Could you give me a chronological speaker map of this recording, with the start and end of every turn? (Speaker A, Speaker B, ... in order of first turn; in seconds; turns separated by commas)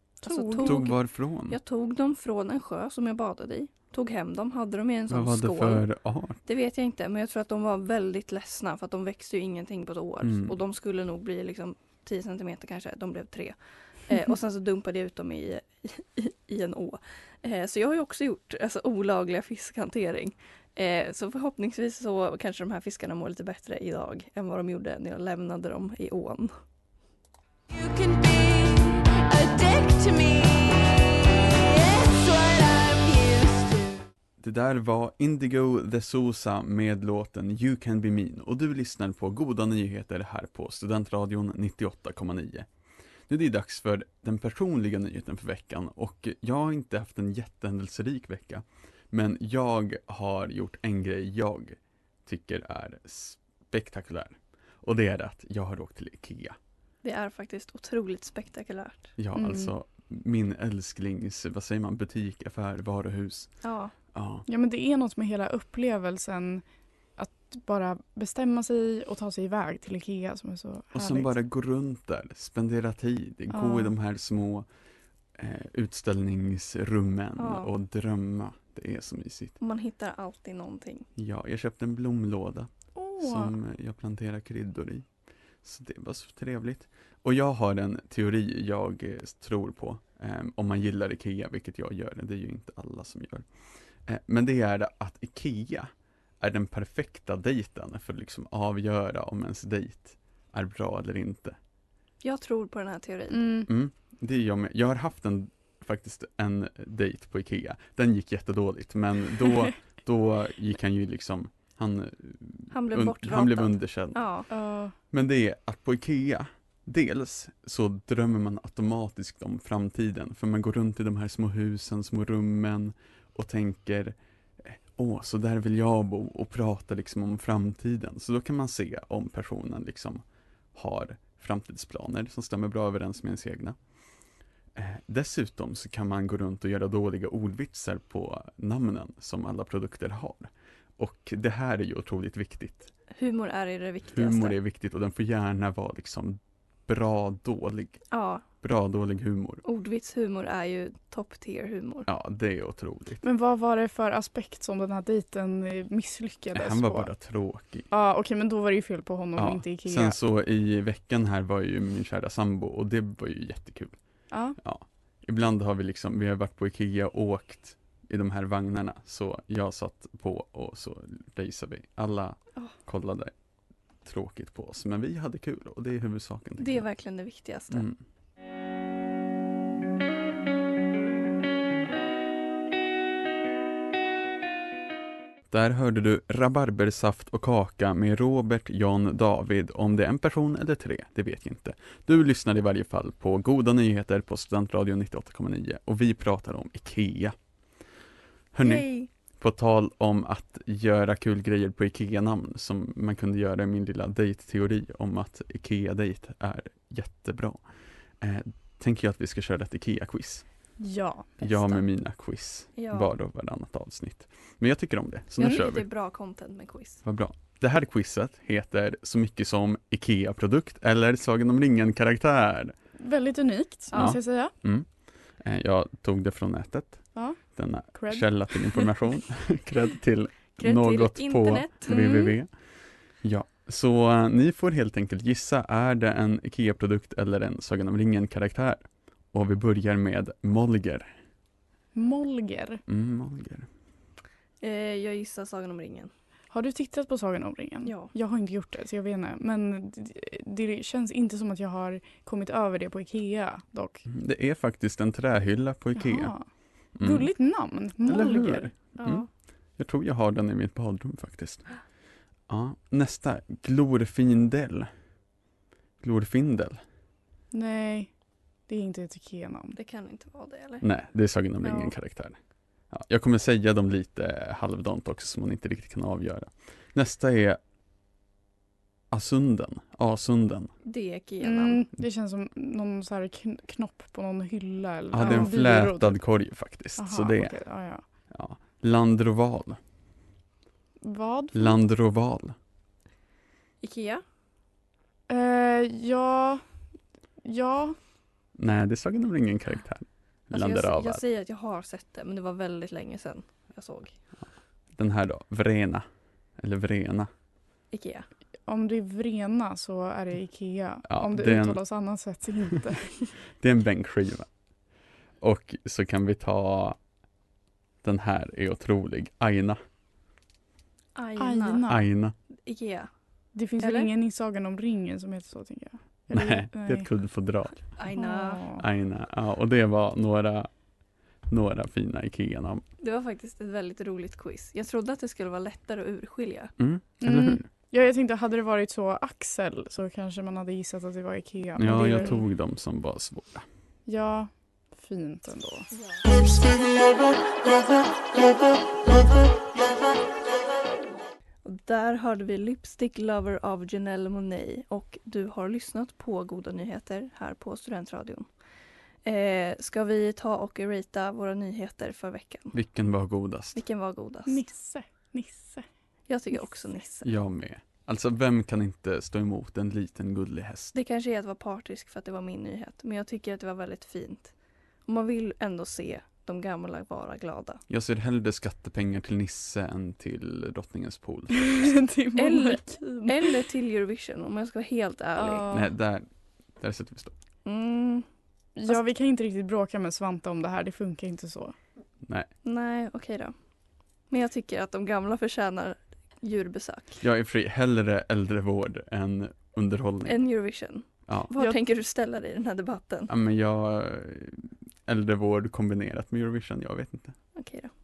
Speaker A: 0.2-5.9, Speaker B: 0.2-0.9, Speaker C: 0.6-1.6, Speaker C: 5.1-6.4, Speaker A: 6.5-13.6, Speaker C: 10.2-10.6, Speaker A: 14.1-26.5, Speaker D: 27.7-34.0, Speaker C: 34.4-42.7, Speaker C: 43.3-56.5, Speaker A: 57.0-59.1, Speaker C: 59.2-63.5, Speaker B: 59.3-59.7, Speaker A: 63.6-63.9, Speaker C: 64.1-64.5, Speaker B: 64.5-66.6, Speaker B: 67.2-71.3, Speaker C: 70.9-74.7, Speaker B: 73.5-73.9, Speaker C: 75.4-79.5, Speaker A: 77.4-77.7, Speaker A: 79.6-81.0, Speaker C: 81.2-85.0, Speaker B: 82.9-83.6, Speaker C: 85.6-93.4, Speaker C: 94.1-95.9, Speaker C: 96.4-101.5, Speaker A: 102.2-103.5, Speaker B: 103.3-103.7, Speaker C: 103.7-114.4, Speaker A: 112.7-114.5, Speaker B: 114.5-114.9, Speaker C: 115.1-130.2, Speaker C: 130.7-133.8, Speaker C: 134.8-142.9, Speaker A: 143.2-144.6, Speaker C: 144.1-148.0, Speaker A: 148.1-148.4, Speaker C: 148.6-149.6, Speaker A: 149.6-152.1, Speaker C: 152.1-153.2, Speaker B: 153.2-157.1, Speaker C: 156.5-157.9, Speaker B: 157.9-160.2, Speaker C: 159.4-163.9, Speaker B: 164.3-164.6, Speaker C: 164.6-173.3, Speaker C: 174.0-176.8, Speaker A: 176.6-177.9, Speaker C: 177.7-178.0, Speaker C: 185.5-197.3, Speaker C: 198.5-198.9, Speaker A: 198.6-199.1, Speaker C: 199.4-207.6, Speaker C: 208.2-210.4, Speaker B: 210.8-211.8, Speaker C: 211.4-215.9, Speaker A: 212.8-213.1, Speaker A: 215.4-217.0, Speaker C: 217.0-222.7, Speaker B: 223.0-224.5, Speaker A: 223.9-224.2, Speaker C: 223.9-224.9, Speaker C: 225.4-232.5, Speaker B: 227.1-227.4, Speaker B: 227.9-228.9, Speaker A: 230.6-232.3, Speaker B: 231.9-232.3, Speaker C: 233.2-241.1, Speaker B: 241.9-242.8, Speaker C: 242.9-243.7, Speaker A: 244.6-246.1, Speaker B: 246.5-254.0, Speaker A: 247.8-248.1, Speaker C: 254.1-256.3, Speaker B: 255.9-256.5, Speaker C: 256.9-257.3, Speaker B: 257.0-258.7, Speaker C: 258.1-259.2, Speaker A: 258.9-259.3, Speaker C: 259.8-261.7, Speaker C: 262.5-264.9, Speaker C: 266.0-266.8, Speaker B: 267.5-268.1, Speaker B: 268.7-269.8, Speaker A: 269.8-270.9, Speaker C: 270.8-272.4, Speaker C: 272.9-277.6, Speaker C: 279.1-280.7, Speaker A: 280.8-281.9, Speaker B: 281.4-286.2, Speaker C: 285.1-287.6, Speaker A: 285.2-285.5, Speaker B: 286.9-288.0, Speaker C: 288.3-289.8, Speaker B: 291.0-291.8, Speaker C: 291.5-292.5, Speaker A: 293.8-294.2, Speaker B: 295.3-296.6, Speaker B: 297.4-297.9, Speaker C: 298.6-301.2, Speaker A: 300.5-304.1, Speaker C: 304.9-306.0, Speaker C: 306.6-307.3, Speaker A: 307.9-308.2, Speaker B: 308.7-313.2, Speaker C: 311.1-311.8, Speaker C: 313.6-314.5, Speaker C: 315.4-317.0, Speaker C: 318.0-319.8, Speaker A: 321.1-321.9, Speaker B: 321.4-322.0, Speaker C: 321.9-322.3, Speaker A: 322.6-323.1, Speaker B: 323.5-327.1, Speaker A: 323.8-324.1, Speaker C: 326.3-327.9, Speaker A: 327.9-328.6, Speaker B: 328.1-328.9, Speaker C: 328.8-330.7, Speaker C: 331.5-332.8, Speaker A: 333.0-336.7, Speaker C: 336.8-337.6, Speaker B: 337.2-342.4, Speaker C: 341.8-343.6, Speaker B: 344.1-345.9, Speaker A: 345.9-346.2, Speaker A: 351.6-358.5, Speaker A: 359.2-362.7, Speaker C: 362.7-363.8, Speaker A: 363.7-364.7, Speaker B: 364.4-365.8, Speaker A: 366.3-367.3, Speaker C: 367.2-370.9, Speaker A: 370.9-374.5, Speaker A: 375.1-377.8, Speaker C: 377.9-381.9, Speaker B: 381.5-383.5, Speaker A: 382.4-385.7, Speaker B: 385.4-385.9, Speaker C: 385.6-386.3, Speaker C: 386.8-387.3, Speaker A: 387.6-388.2, Speaker B: 388.8-391.7, Speaker A: 392.6-393.5, Speaker A: 394.3-397.2, Speaker C: 397.2-400.4, Speaker A: 400.2-403.3, Speaker C: 403.3-407.3, Speaker A: 407.6-407.9